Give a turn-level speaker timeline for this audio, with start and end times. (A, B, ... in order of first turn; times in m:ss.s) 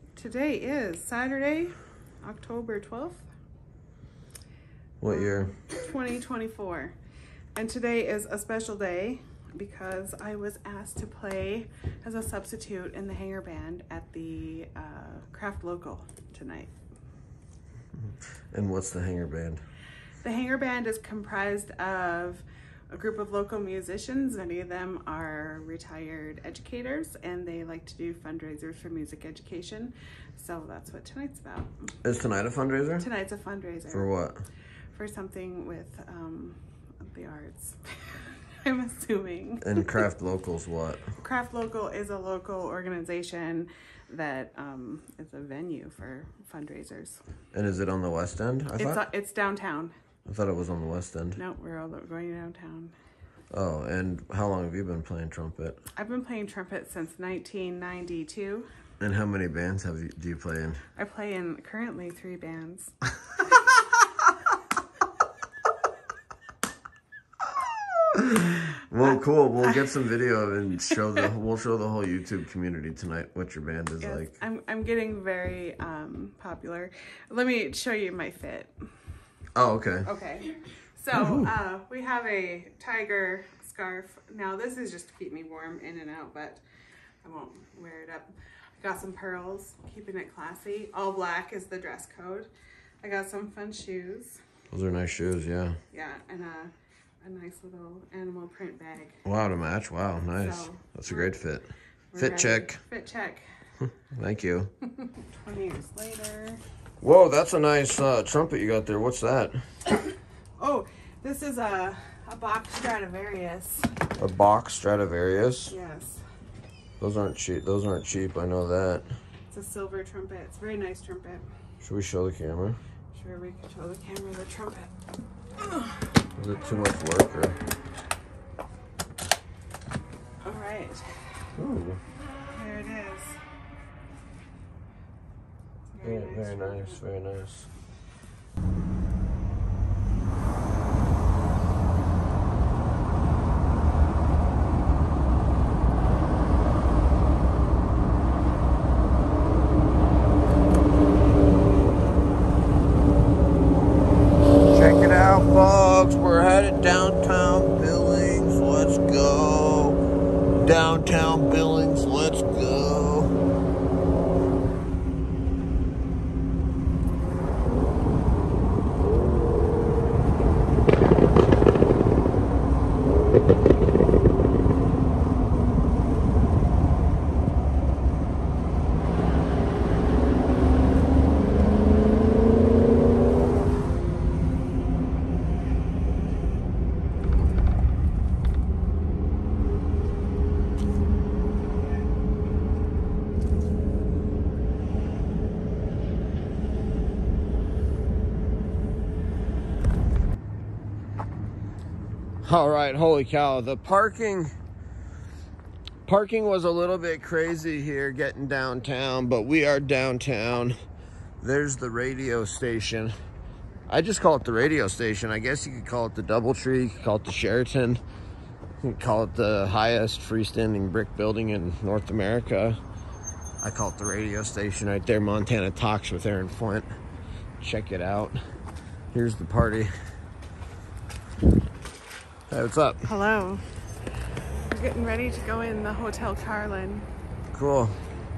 0:00.2-0:03.2 A
0:05.0-0:05.5 B
0:05.1-0:06.9 A
0:07.5-0:16.7 A
0:18.5-0:19.6 B
0:20.2-0:31.8 A
0:32.0-0:33.1 B
0:33.0-0:34.1 A
0:33.9-0:34.4 B
0:34.9-0:39.9 A
0:39.6-0:41.1 B
0:41.2-0:47.2 A
0:47.5-0:49.0 B
0:48.8-0:49.9 A
0:50.2-0:51.4 B
0:51.4-0:52.9 A
0:53.5-0:55.8 B
0:56.0-0:58.7 A
0:59.0-1:00.8 B
1:01.0-1:02.9 A
1:08.1-1:14.4 B
1:14.0-1:18.8 A
1:19.6-1:20.1 B
1:20.0-1:26.6 A
1:27.2-1:32.5 A
1:33.0-1:34.4 A
1:34.7-1:35.8 B
1:35.9-1:39.2 A
1:39.2-1:42.8 B
1:40.4-1:41.4 A
1:42.1-1:43.4 A
1:44.1-1:44.7 B
1:45.0-1:46.6 A
1:47.0-1:49.6 B
1:50.6-1:54.0 A
1:54.2-1:55.7 B
1:55.7-1:56.2 A
1:57.0-1:59.0 B
1:59.5-2:01.5 A
2:01.8-2:02.8 B
2:03.1-2:04.9 A
2:05.6-2:06.1 A
2:06.4-2:07.6 B
2:10.4-2:11.0 A
2:11.6-2:12.0 B
2:12.5-2:13.4 A
2:15.9-2:17.0 A
2:16.0-2:17.7 B
2:34.6-2:40.0 B
2:40.5-2:43.3 B
3:22.4-3:24.5 B
3:26.0-3:30.7 B
3:31.4-3:33.1 B
3:33.9-3:38.0 B
3:38.8-3:42.8 B
3:43.6-3:46.9 B
3:47.6-3:48.4 B
3:49.1-3:49.9 B
3:52.5-3:53.1 B
3:53.0-3:53.6 A
3:54.7-3:57.1 A
3:57.5-3:57.9 B